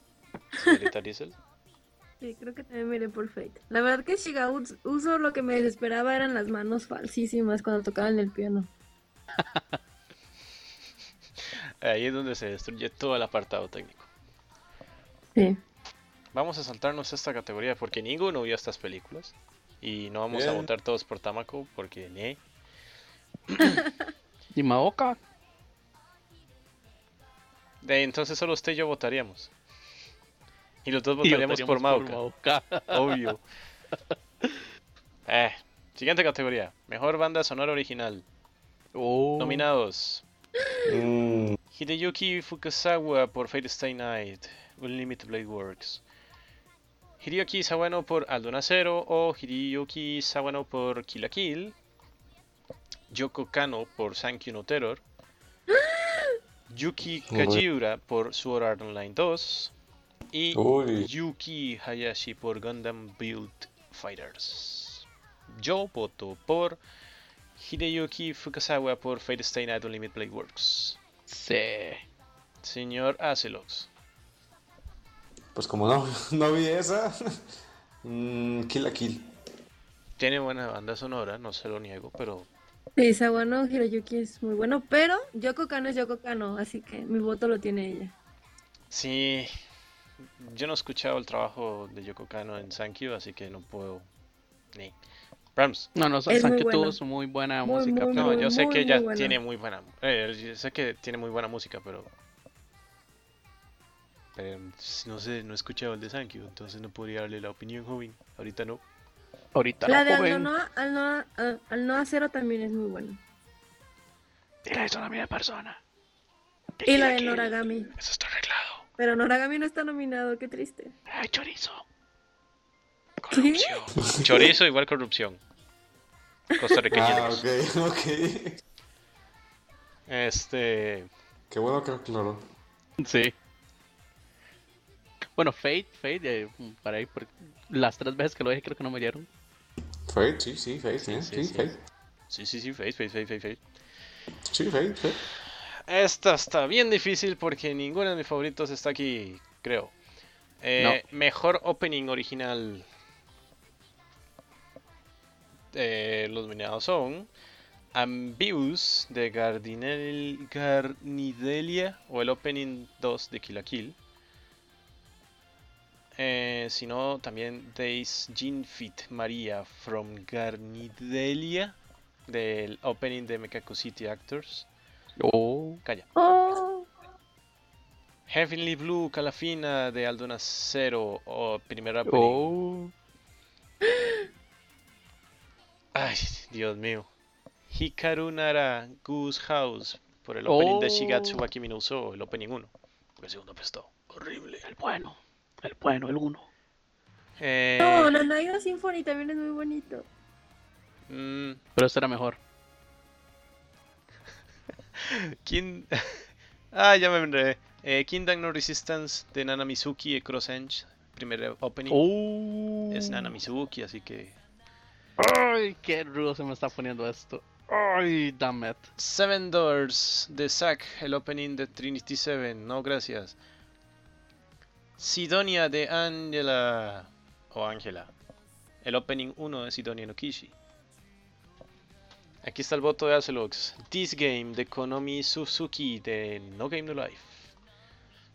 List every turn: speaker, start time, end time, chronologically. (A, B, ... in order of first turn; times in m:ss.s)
0:00.5-0:01.4 A
0:02.2-0:08.7 B
0:11.8-0:14.1 A
0:16.3-0:22.4 A
0:20.3-0:20.7 C
0:23.5-0:23.8 A
0:24.5-0:25.2 D
0:27.8-0:29.5 A
0:30.8-0:32.2 A
0:31.2-0:33.3 D
0:32.9-0:33.4 A
0:35.3-0:38.2 A
0:38.9-0:39.6 D
0:39.4-0:40.2 A
0:40.8-0:41.6 C
0:41.7-0:46.0 A
0:47.2-0:51.7 A
0:53.1-0:55.0 A
0:55.7-0:56.3 B
0:56.7-0:59.7 A
0:57.3-0:57.6 C
1:00.3-1:06.8 A
1:00.5-1:01.1 C
1:07.6-1:11.0 A
1:11.3-1:12.0 D
1:12.6-1:13.9 A
1:15.5-1:17.4 C
1:18.0-1:19.3 C
1:20.2-1:22.5 A
1:23.0-1:28.1 B
1:28.9-1:29.5 A
1:30.4-1:34.1 A
1:35.6-1:35.9 A
1:35.9-1:38.5 D
1:36.3-1:37.0 B
1:37.6-1:39.4 B
1:38.1-1:42.1 A
1:44.4-1:48.8 A
1:49.5-1:50.5 D
1:49.8-1:53.2 B
1:54.6-1:55.8 D
1:56.8-1:57.5 D
1:56.8-1:57.9 B
1:58.0-1:58.8 A
1:59.0-2:00.9 B
2:01.1-2:01.8 D
2:03.2-2:05.4 A
2:03.3-2:03.8 B
2:04.0-2:04.5 C
2:06.6-2:07.4 A
2:06.9-2:08.6 C
2:10.1-2:11.1 A
2:11.5-2:12.4 C
2:13.0-2:13.3 D
2:15.4-2:19.3 D
2:20.1-2:21.8 C
2:21.0-2:21.8 A
2:22.3-2:23.6 A
2:24.5-2:25.2 C
2:25.9-2:29.9 A
2:30.6-2:32.8 A
2:35.7-2:37.3 A
2:37.9-2:44.0 A
2:46.2-2:51.8 A
2:52.3-2:54.7 A
2:55.2-2:55.8 D
2:56.2-2:56.9 B
2:58.3-3:02.5 A
3:02.0-3:02.9 D
3:05.9-3:07.1 A
3:07.7-3:14.6 A
3:10.5-3:11.4 D
3:14.6-3:16.4 D
3:17.4-3:18.1 A
3:17.8-3:20.0 B
3:21.1-3:21.6 A
3:21.8-3:22.4 D
3:25.0-3:32.0 A
3:31.9-3:33.3 D
3:32.9-3:34.4 A
3:35.2-3:38.9 D
3:39.0-3:43.4 A
3:45.0-3:48.1 A
3:48.8-3:50.5 A
3:52.4-3:57.5 A